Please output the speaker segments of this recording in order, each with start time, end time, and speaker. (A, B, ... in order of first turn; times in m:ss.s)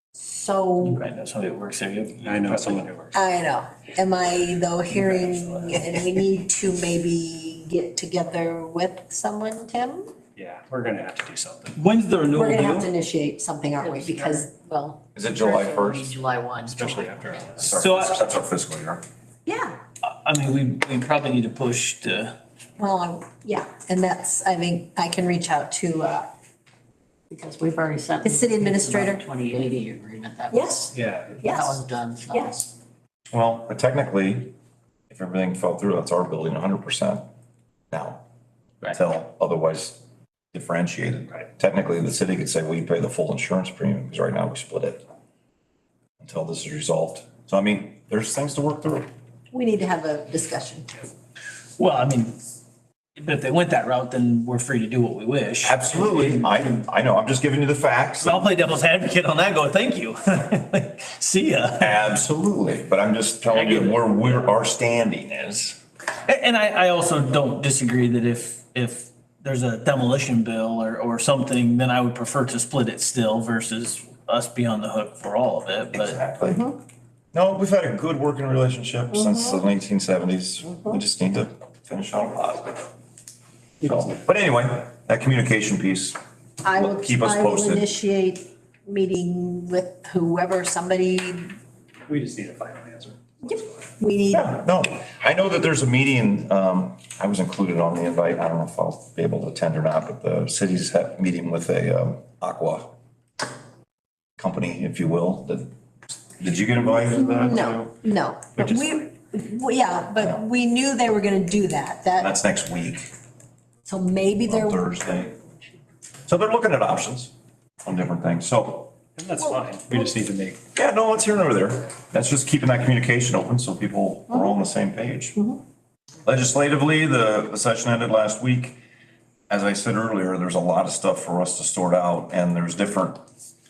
0:00.2-0:01.0 A
0:00.8-0:02.9 B
0:02.2-0:03.2 C
0:03.1-0:10.1 A
0:05.0-0:05.6 B
0:10.4-0:11.8 C
0:11.7-0:12.9 B
0:12.3-0:15.0 A
0:13.8-0:14.5 D
0:15.1-0:16.1 E
0:15.2-0:17.6 D
0:16.6-0:17.6 C
0:17.6-0:19.0 E
0:17.6-0:18.2 B
0:19.4-0:19.8 A
0:20.0-0:22.3 B
0:22.8-0:26.3 A
0:27.3-0:32.7 D
0:28.2-0:29.2 A
0:30.5-0:32.5 A
0:30.9-0:31.4 C
0:33.3-0:34.5 E
0:35.1-0:37.3 E
0:37.9-0:38.2 E
0:38.8-0:40.0 E
0:40.5-0:45.0 E
0:46.2-0:49.1 E
0:49.5-0:50.9 A
0:51.8-0:52.4 B
0:53.2-0:56.4 B
0:55.6-0:58.4 E
0:58.2-1:02.0 B
1:01.8-1:05.8 E
1:03.5-1:04.3 B
1:06.2-1:16.2 B
1:15.9-1:16.6 E
1:16.4-1:16.8 A
1:17.3-1:22.8 E
1:19.2-1:19.6 A
1:23.8-1:26.2 E
1:26.6-1:31.6 A
1:26.7-1:27.9 E
1:32.1-1:33.7 C
1:33.4-1:34.6 A
1:34.3-1:42.9 E
1:44.4-1:45.7 E
1:46.4-1:47.9 E
1:47.1-1:52.3 A
1:52.2-1:53.1 E
1:53.8-1:54.9 A
1:54.4-1:55.3 E
1:56.3-1:57.3 E
1:57.8-1:58.9 E
1:59.2-2:00.6 C
2:00.7-2:05.4 E
2:06.2-2:08.8 E
2:09.5-2:13.2 E